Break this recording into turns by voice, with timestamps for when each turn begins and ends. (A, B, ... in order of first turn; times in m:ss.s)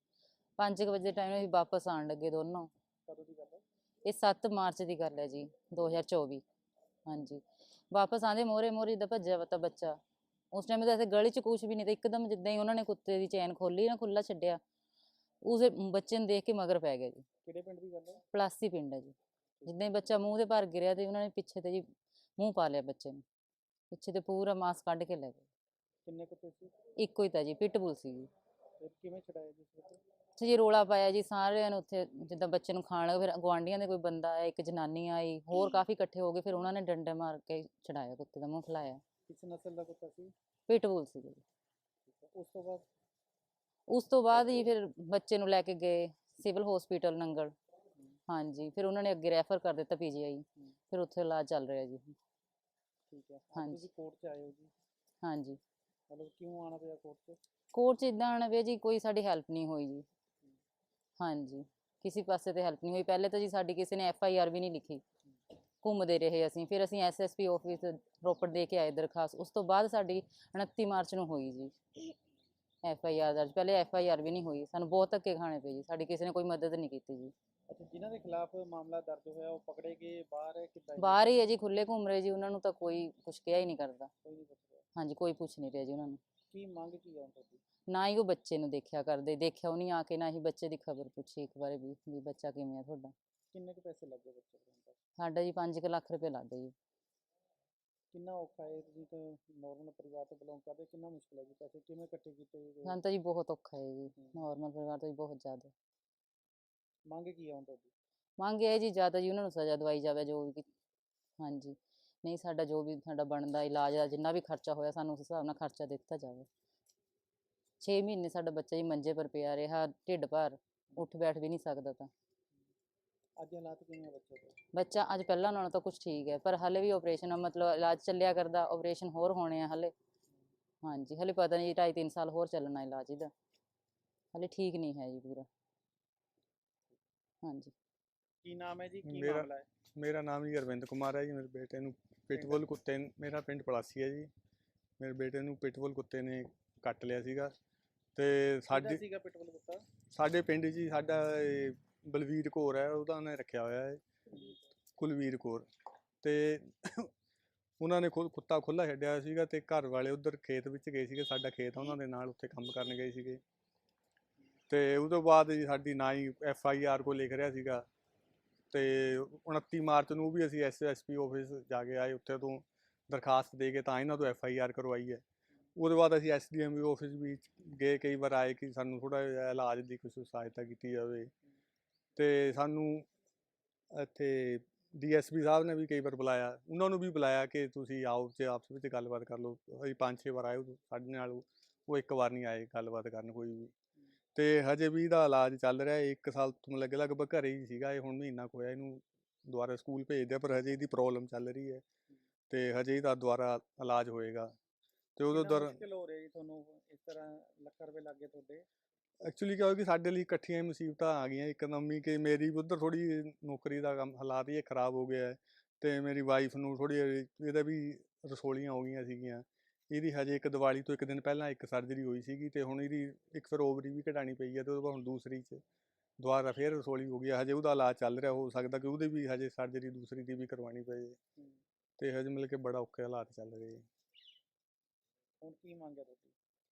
0:00.6-0:02.7 A
0:03.1-0:03.6 B
0:04.0-0:06.4 A
0:07.1-0:10.0 A
0:10.5-0:14.6 A
0:15.4-0:17.2 A
0:17.4-0:18.2 B
0:18.3-0:19.1 A
0:19.6-0:23.2 A
0:23.9-0:25.4 A
0:26.0-0:26.7 B
0:27.0-0:28.3 A
0:28.8-0:30.0 B
0:30.4-0:39.0 A
0:39.3-0:40.3 B
0:40.7-0:41.4 A
0:42.1-0:42.8 B
0:43.9-0:47.5 A
0:48.3-0:52.2 A
0:53.1-0:54.7 B
0:53.5-0:53.8 A
0:55.2-0:55.6 A
0:56.1-0:57.4 B
0:57.7-1:00.0 A
1:01.2-1:05.0 A
1:05.8-1:11.7 A
1:12.8-1:17.3 A
1:17.7-1:21.3 B
1:21.0-1:24.1 A
1:24.2-1:24.8 B
1:25.0-1:26.2 A
1:26.5-1:27.6 B
1:27.9-1:33.1 A
1:33.5-1:35.0 B
1:35.2-1:36.7 A
1:38.1-1:43.0 B
1:42.8-1:45.7 A
1:47.1-1:47.9 B
1:48.4-1:50.6 A
1:51.4-1:56.4 A
1:57.8-2:02.1 A
2:03.4-2:04.6 B
2:04.7-2:09.9 A
2:10.8-2:13.3 A
2:14.3-2:15.5 A
2:17.4-2:17.7 A
2:18.4-2:19.6 B
2:19.0-2:24.3 C
2:22.3-2:22.6 B
2:25.0-2:27.5 C
2:28.2-2:29.0 C
2:28.7-2:29.8 B
2:30.1-2:34.0 C
2:35.0-2:35.7 C
2:36.2-2:37.1 C
2:37.8-2:43.4 C
2:44.7-2:47.8 C
2:48.7-2:55.2 C
2:55.8-3:01.3 C
3:02.2-3:03.1 C
3:03.9-3:13.7 C
3:14.3-3:21.8 C
3:22.5-3:24.5 C
3:25.2-3:25.8 C
3:25.3-3:28.6 B
3:29.2-3:45.6 C
3:46.2-3:51.2 C
3:52.0-3:53.8 C
3:55.4-3:56.3 B